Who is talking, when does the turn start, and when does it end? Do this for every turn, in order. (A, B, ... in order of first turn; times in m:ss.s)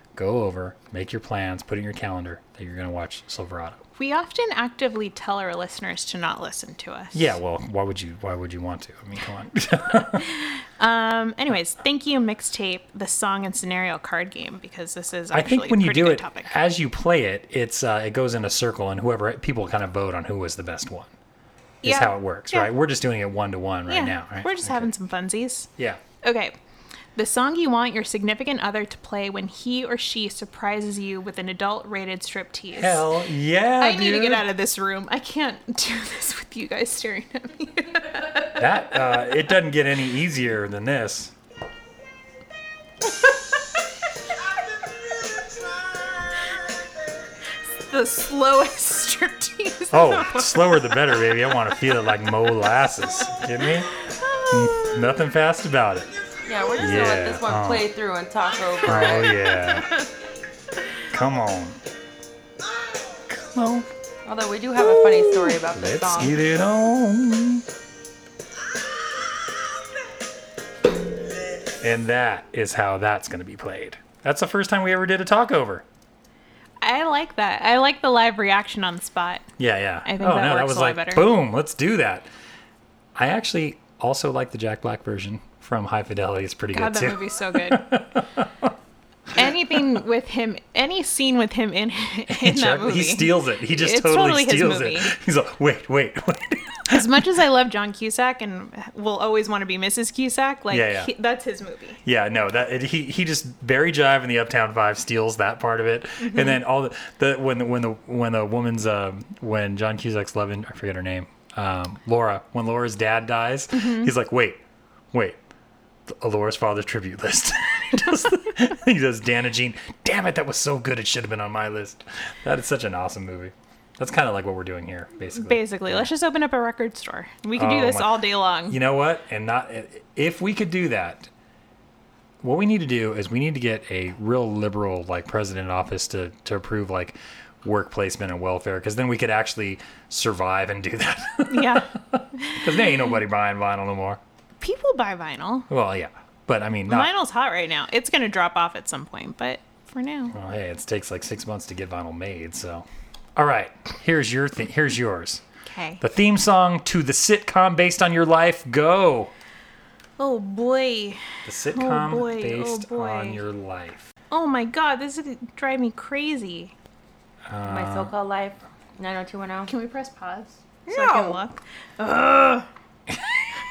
0:00.2-0:03.8 A
0:04.0-0:07.3 B
0:07.1-0:10.3 A
0:10.2-0:16.5 B
0:15.3-0:21.1 A
0:21.8-0:24.9 A
0:21.8-0:22.7 B
0:23.9-0:25.7 B
0:26.2-0:26.5 B
0:27.2-0:33.1 B
0:32.7-0:34.5 A
0:33.8-0:38.6 B
0:38.6-0:41.3 A
0:47.9-0:51.3 B
0:49.9-0:53.9 A
0:54.2-0:55.0 B
0:54.5-0:56.1 A
0:56.5-0:59.5 C
0:56.8-0:58.0 A
0:58.8-0:59.9 A
1:01.1-1:01.8 A
1:03.3-1:03.9 A
1:04.3-1:06.4 C
1:04.8-1:07.6 A
1:11.8-1:15.8 A
1:16.8-1:19.4 B
1:19.6-1:22.3 A
1:20.1-1:21.3 B
1:23.2-1:28.7 A
1:26.7-1:27.9 B
1:29.3-1:35.1 B
1:29.4-1:29.8 A
1:32.3-1:37.2 A
1:36.9-1:42.0 B
1:40.7-1:41.1 A
1:42.0-1:54.6 A
1:46.2-1:46.6 B
1:53.7-1:54.1 B
1:55.1-1:55.4 A
1:56.1-2:06.1 A
2:05.4-2:08.8 B
2:07.6-2:11.3 A
2:12.4-2:24.2 A
2:21.5-2:23.1 B
2:24.6-2:25.7 B
2:25.7-2:27.1 A
2:26.9-2:30.3 B
2:30.3-2:35.4 A
2:35.6-2:36.0 B
2:36.0-2:39.3 A
2:40.2-2:43.4 B
2:41.4-2:44.1 A
2:44.3-2:46.7 B
2:47.5-2:48.1 A
2:47.6-2:49.7 C
2:49.7-2:52.7 B
2:50.9-2:51.4 C